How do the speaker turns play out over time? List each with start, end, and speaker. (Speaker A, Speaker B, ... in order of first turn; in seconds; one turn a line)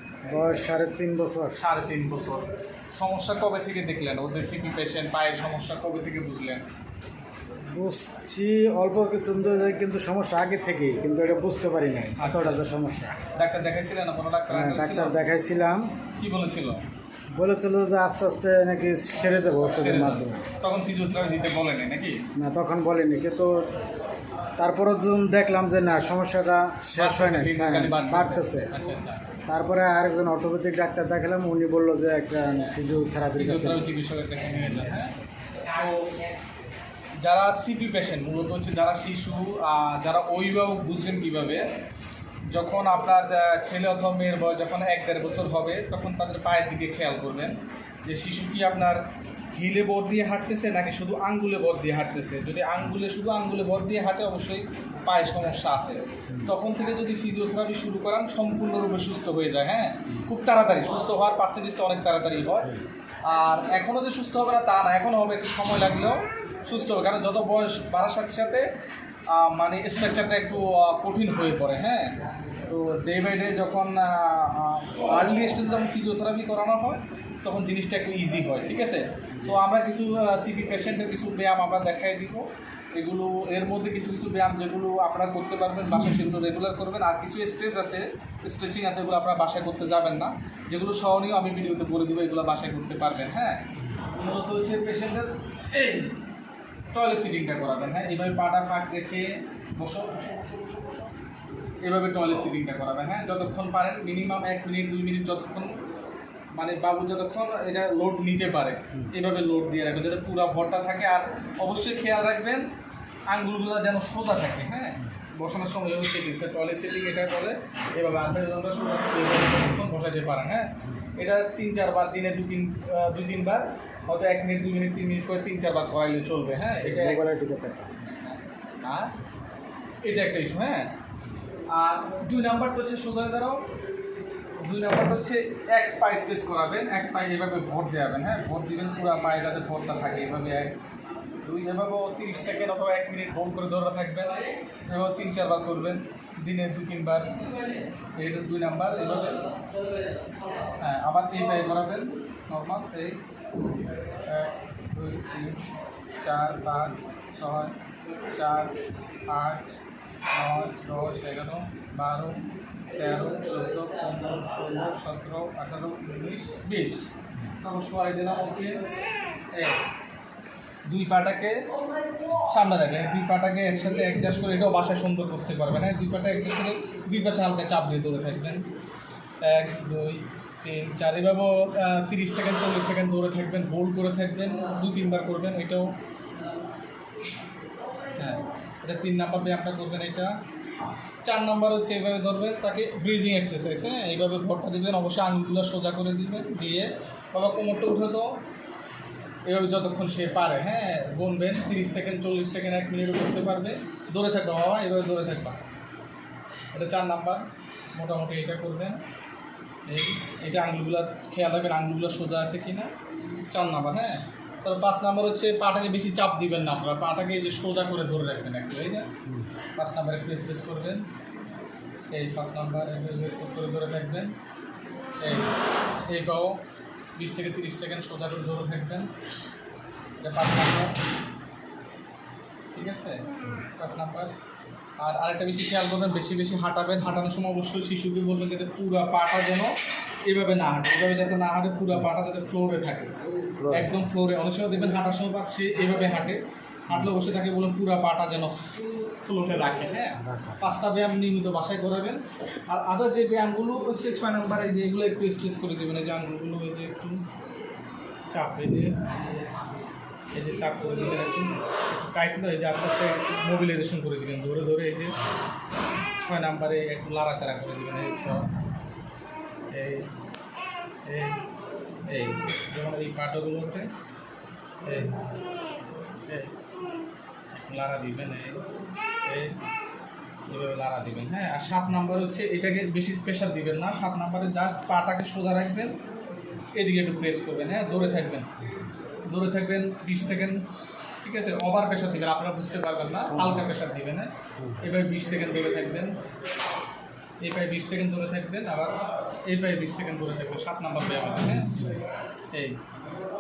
Speaker A: 0.3-1.6
Speaker B: 1.6-6.6
Speaker A: 7.7-13.2
Speaker B: 12.2-12.6
Speaker B: 13.3-15.2
Speaker A: 14.5-15.9
Speaker B: 16.2-16.8
Speaker A: 17.3-20.5
Speaker B: 19.7-22.3
Speaker A: 22.4-23.8
Speaker A: 24.6-28.7
Speaker B: 26.9-29.3
Speaker A: 29.5-33.8
Speaker B: 33.4-36.2
Speaker B: 37.2-41.7
Speaker B: 42.5-68.7
Speaker B: 69.3-96.2
Speaker B: 96.9-101.0
Speaker B: 101.8-105.8
Speaker B: 106.5-112.7
Speaker B: 113.3-127.2
Speaker A: 126.8-127.9
Speaker B: 128.8-129.1
Speaker B: 130.0-130.9
Speaker B: 131.7-133.7
Speaker B: 134.6-140.7
Speaker B: 141.4-147.5
Speaker B: 148.1-149.5
Speaker B: 150.7-153.2
Speaker B: 154.1-155.6
Speaker B: 156.2-158.8
Speaker B: 159.3-159.8
Speaker B: 160.3-168.9
Speaker B: 169.5-169.8
Speaker B: 170.9-171.6
Speaker B: 172.3-178.7
Speaker B: 179.4-185.9
Speaker B: 188.1-190.3
Speaker B: 191.2-198.3
Speaker B: 199.5-205.6
Speaker B: 206.7-209.0
Speaker B: 209.9-212.9
Speaker B: 213.5-219.1
Speaker B: 219.8-221.0
Speaker B: 222.1-224.3
Speaker B: 225.2-226.6
Speaker B: 227.2-229.1
Speaker B: 230.2-231.0
Speaker B: 232.7-234.3
Speaker B: 235.0-239.7
Speaker B: 240.2-257.2
Speaker A: 243.6-243.9
Speaker A: 250.2-250.7
Speaker B: 258.3-259.1
Speaker B: 260.3-265.2
Speaker B: 266.2-268.5
Speaker B: 269.7-270.1
Speaker B: 271.1-271.4
Speaker B: 272.1-273.9
Speaker B: 274.8-275.2
Speaker B: 276.3-276.6
Speaker B: 277.5-278.6
Speaker B: 279.2-279.6
Speaker B: 280.5-286.0
Speaker B: 286.7-288.7
Speaker B: 289.2-290.6
Speaker B: 291.2-296.1
Speaker B: 297.4-302.0
Speaker B: 302.5-302.8